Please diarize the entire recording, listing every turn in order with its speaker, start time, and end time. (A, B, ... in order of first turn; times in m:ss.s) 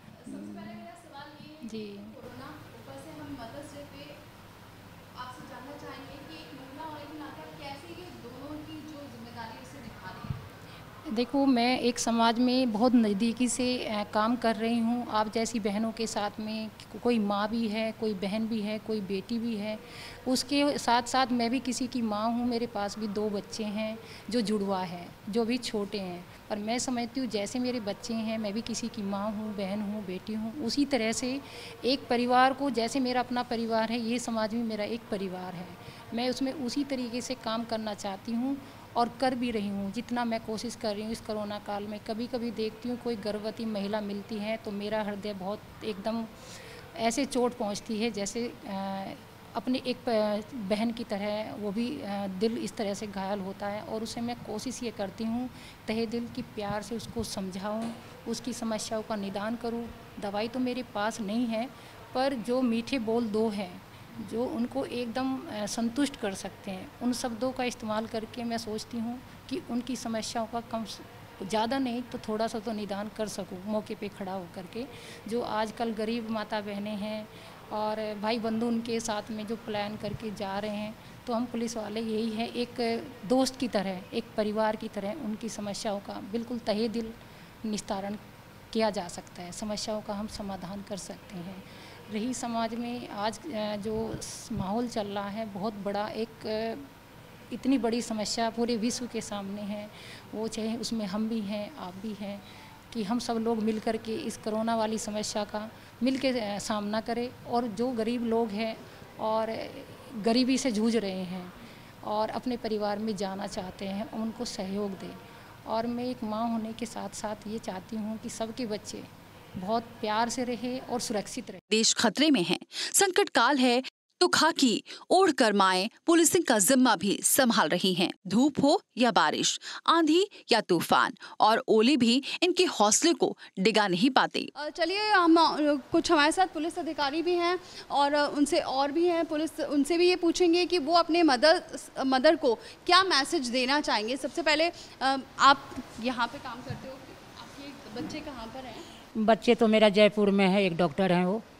0:00.2-0:04.2 A
0:00.3-0:00.8 B
0:01.6-0:02.1 B
0:05.1-0:10.4 A
0:11.1-0:46.3 B
0:47.0-1:28.2 B
1:28.7-1:36.9 B
1:37.5-2:01.6 B
2:01.7-2:14.5 C
2:14.6-2:28.9 A
2:29.2-2:31.4 D